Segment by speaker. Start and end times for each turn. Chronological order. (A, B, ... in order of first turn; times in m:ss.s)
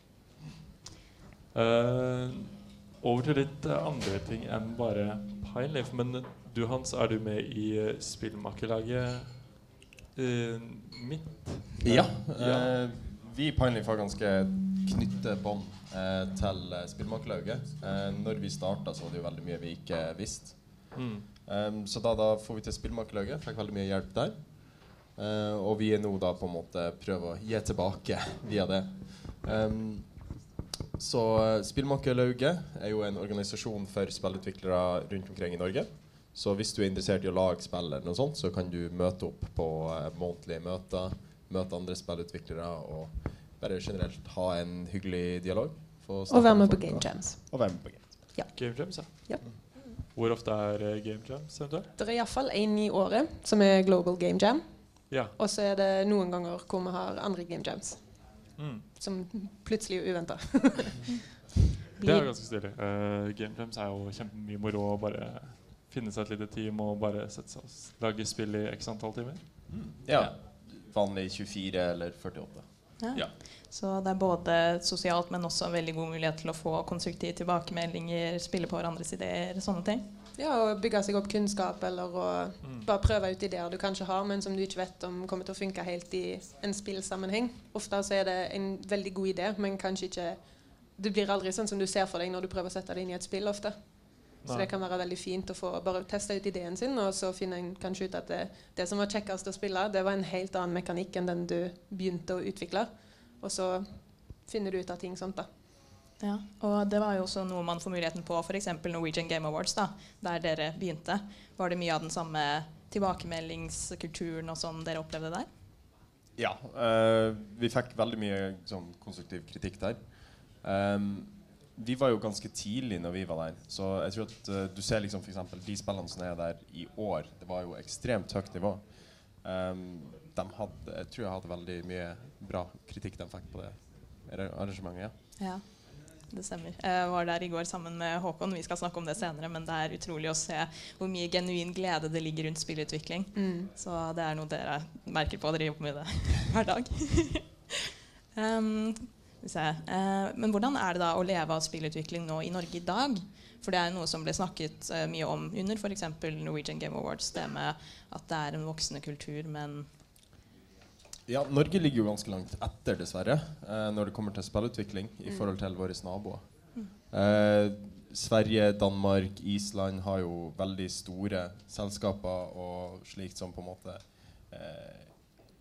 0:01.5-0:12.8 A
0:11.8-0:30.4 B
0:20.9-0:21.2 A
0:31.0-0:48.4 B
0:46.3-0:49.4 C
0:48.5-0:51.9 A
0:52.0-1:01.0 C
0:55.1-0:55.3 A
0:58.6-0:58.9 A
1:02.0-1:02.3 C
1:02.0-1:10.3 A
1:09.7-1:13.3 B
1:13.0-1:20.0 D
1:20.4-1:45.5 C
1:22.6-1:22.9 A
1:34.4-1:34.7 A
1:46.2-1:55.5 D
1:56.4-2:15.2 B
2:15.4-2:27.8 D
2:23.4-2:23.7 C
2:28.4-2:39.9 D
2:41.2-2:55.4 B